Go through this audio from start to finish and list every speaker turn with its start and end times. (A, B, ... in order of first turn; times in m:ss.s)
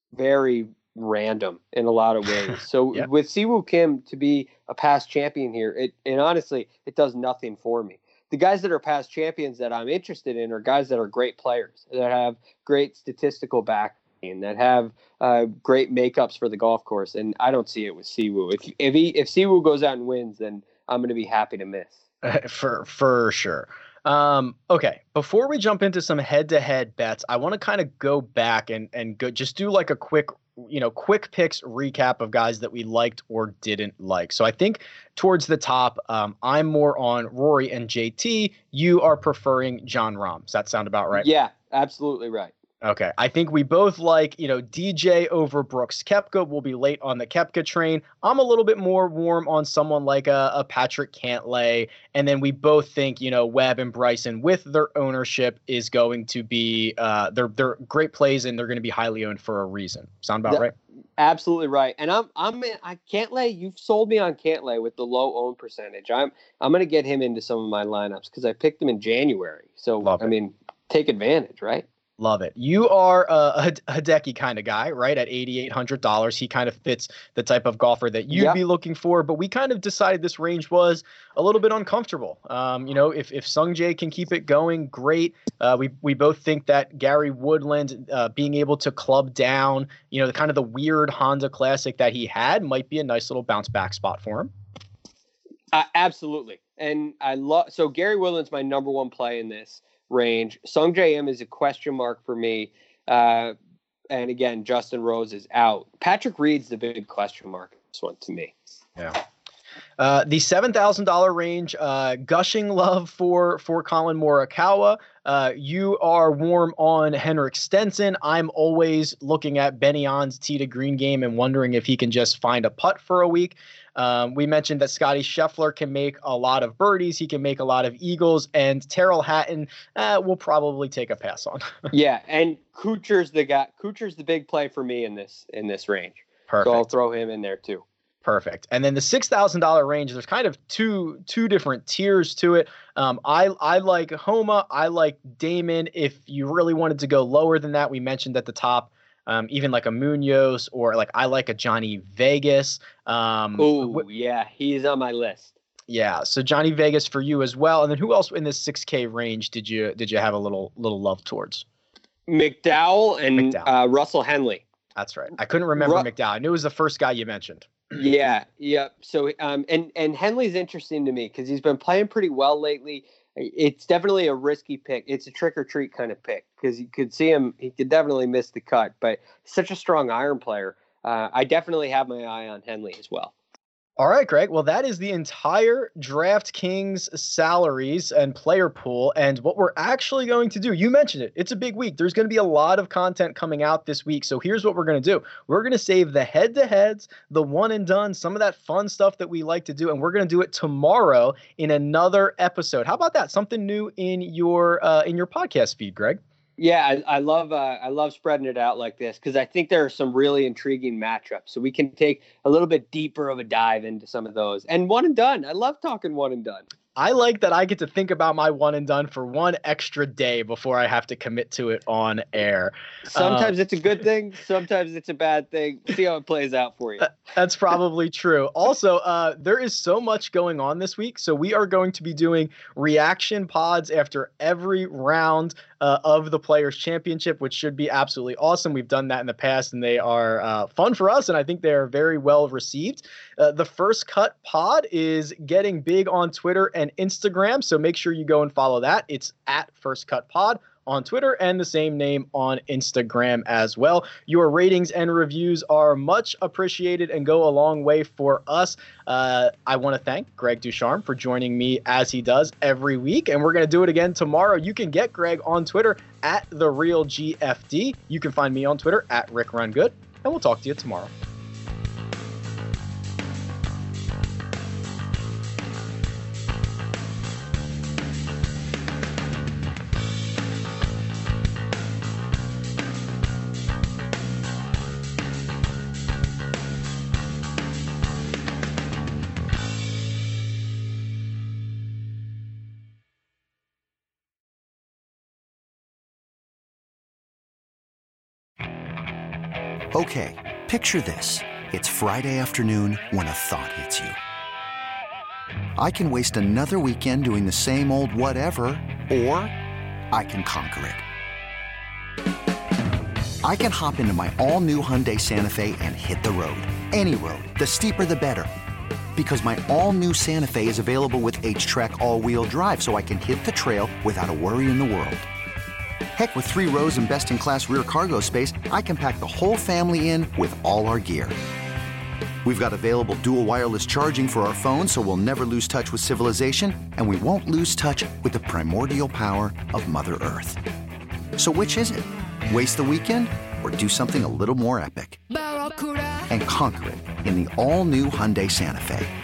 0:00.1-0:22.0 A
0:22.2-0:41.3 B
0:41.1-0:42.5 A
0:42.8-1:00.7 B
1:01.2-1:11.9 A
1:10.0-1:10.3 B
1:12.2-1:34.5 B
1:18.3-1:18.6 A
1:35.7-1:43.6 A
1:44.1-1:48.5 A
1:50.0-2:11.9 B
2:11.9-2:17.8 A
2:16.5-2:16.9 B
2:18.2-2:34.0 B
2:33.6-2:35.6 A
2:35.9-2:41.6 B
2:42.3-2:44.6 A
2:43.4-2:43.7 B
2:45.0-2:47.8 B
2:45.8-2:46.1 A
2:47.9-3:03.3 A
3:04.0-3:26.2 B
3:26.6-3:36.6 A
3:37.0-3:43.5 B
3:43.1-3:47.1 A
3:47.2-4:31.1 B
4:59.9-5:04.2 C
5:05.8-5:09.5 C
5:10.1-5:11.0 C
5:13.4-5:18.5 C
5:19.2-5:25.2 C
5:26.2-5:31.4 C
5:32.4-5:40.6 C
5:41.4-5:45.4 C
5:46.2-5:49.1 C